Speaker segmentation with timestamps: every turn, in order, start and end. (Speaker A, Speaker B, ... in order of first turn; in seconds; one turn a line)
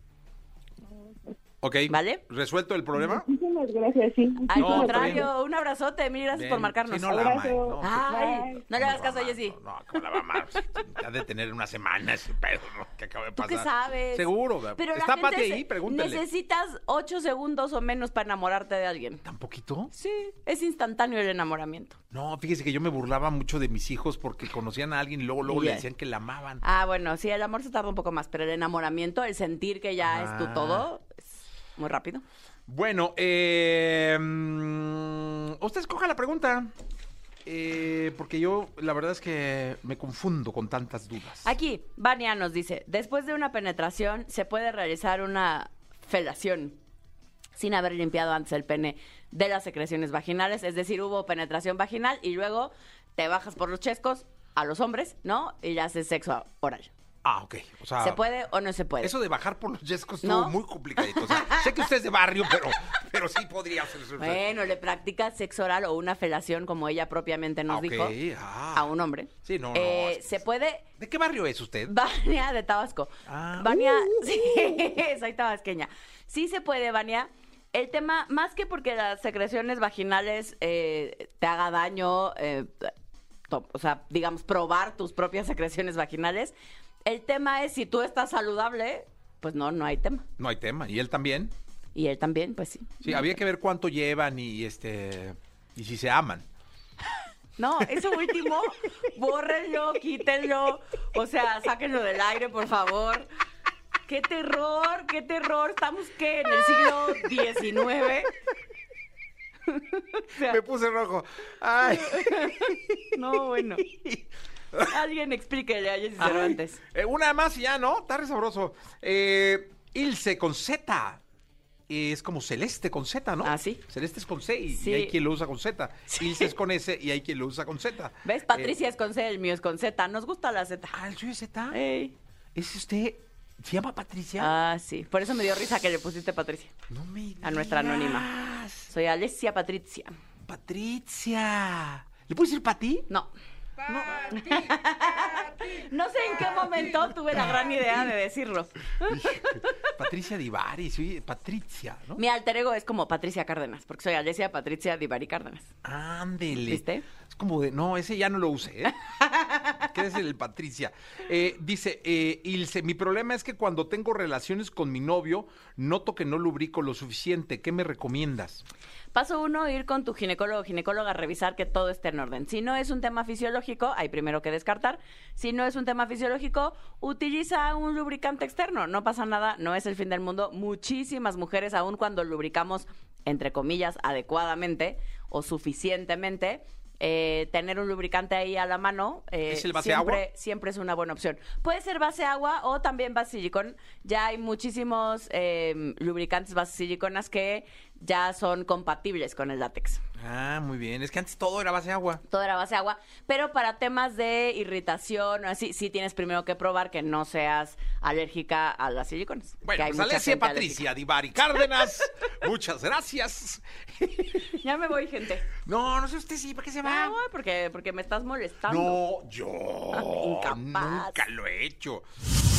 Speaker A: 0.9-1.4
Speaker B: 1.6-3.2
Speaker C: 1.9-2.2
Speaker A: 3.0-5.3
Speaker C: 4.5-7.2
Speaker B: 4.5-5.3
Speaker B: 6.3-8.2
Speaker A: 7.1-8.6
Speaker C: 7.8-10.4
Speaker B: 8.7-16.2
Speaker C: 13.4-19.2
Speaker B: 19.2-19.9
Speaker C: 19.9-22.0
Speaker B: 22.1-26.6
Speaker C: 25.5-25.9
Speaker C: 26.6-31.2
Speaker B: 30.0-30.9
Speaker C: 31.8-32.2
Speaker B: 32.7-36.7
Speaker B: 37.5-41.5
Speaker C: 41.5-46.8
Speaker C: 47.5-56.9
Speaker B: 57.2-58.2
Speaker C: 58.0-59.1
Speaker B: 59.0-64.4
Speaker C: 60.2-61.9
Speaker C: 64.2-68.2
Speaker B: 67.7-68.9
Speaker C: 68.7-70.8
Speaker B: 69.4-70.4
Speaker B: 71.0-71.9
Speaker C: 71.8-82.9
Speaker B: 73.2-74.8
Speaker C: 83.5-86.5
Speaker C: 87.0-90.2
Speaker B: 90.4-91.5
Speaker C: 92.0-93.3
Speaker B: 93.0-96.5
Speaker C: 97.6-103.3
Speaker C: 104.1-108.3
Speaker C: 109.7-110.6
Speaker B: 110.3-115.0
Speaker C: 111.9-113.9
Speaker C: 114.8-116.8
Speaker B: 116.2-121.2
Speaker B: 121.9-128.8
Speaker C: 123.4-123.8
Speaker C: 124.7-125.2
Speaker C: 126.1-126.5
Speaker C: 128.2-131.0
Speaker B: 130.9-131.8
Speaker C: 131.7-132.1
Speaker B: 132.6-134.5
Speaker C: 134.4-136.7
Speaker B: 136.9-138.9
Speaker C: 137.4-138.3
Speaker C: 138.9-140.1
Speaker B: 140.5-143.1
Speaker B: 143.9-144.6
Speaker C: 144.1-149.9
Speaker B: 149.1-152.2
Speaker C: 152.2-155.7
Speaker B: 155.8-158.9
Speaker C: 156.5-157.1
Speaker C: 159.0-159.9
Speaker B: 159.8-168.6
Speaker C: 169.1-200.0
Speaker B: 189.5-190.2
Speaker B: 200.2-202.2
Speaker C: 202.3-210.9
Speaker B: 209.6-214.6
Speaker C: 214.5-215.5
Speaker B: 215.6-217.2
Speaker C: 216.8-219.0
Speaker B: 218.7-222.0
Speaker C: 219.9-221.2